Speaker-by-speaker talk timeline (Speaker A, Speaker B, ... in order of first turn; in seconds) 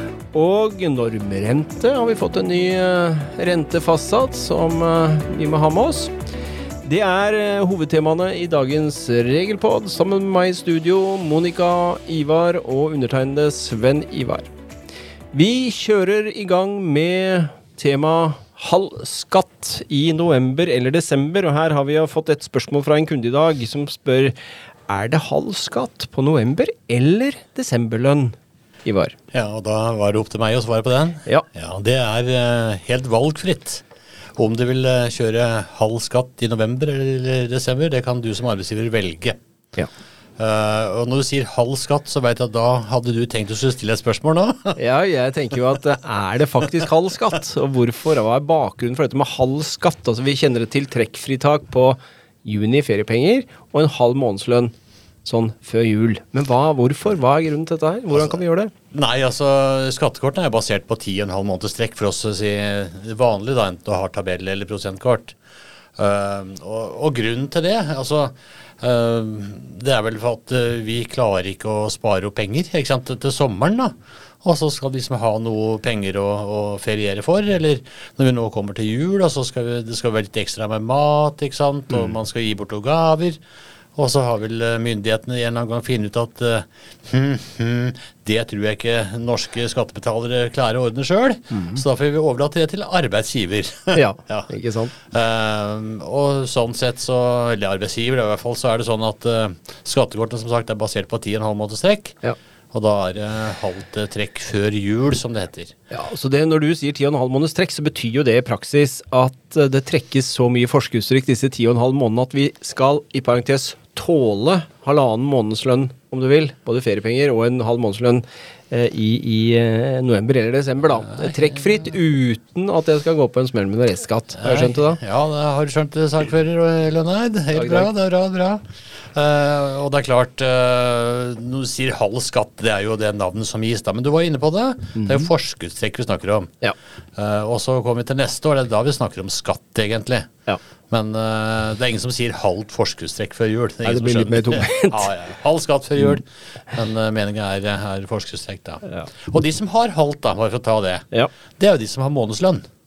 Speaker A: 0.3-6.2, 6.8-14.5, 15.3-24.4, 24.9-29.2, 44.8-54.7, 55.2-58.7, 94.0-94.9, 105.9-125.0, 127.5-127.9, 135.0-135.3, 143.8-145.1
Speaker B: 29.3-33.8, 34.4-39.4, 40.4-44.8, 58.9-65.4, 66.0-83.4, 84.0-102.2, 102.7-105.8, 124.4-136.6, 137.2-140.3, 140.9-151.1, 151.6-152.7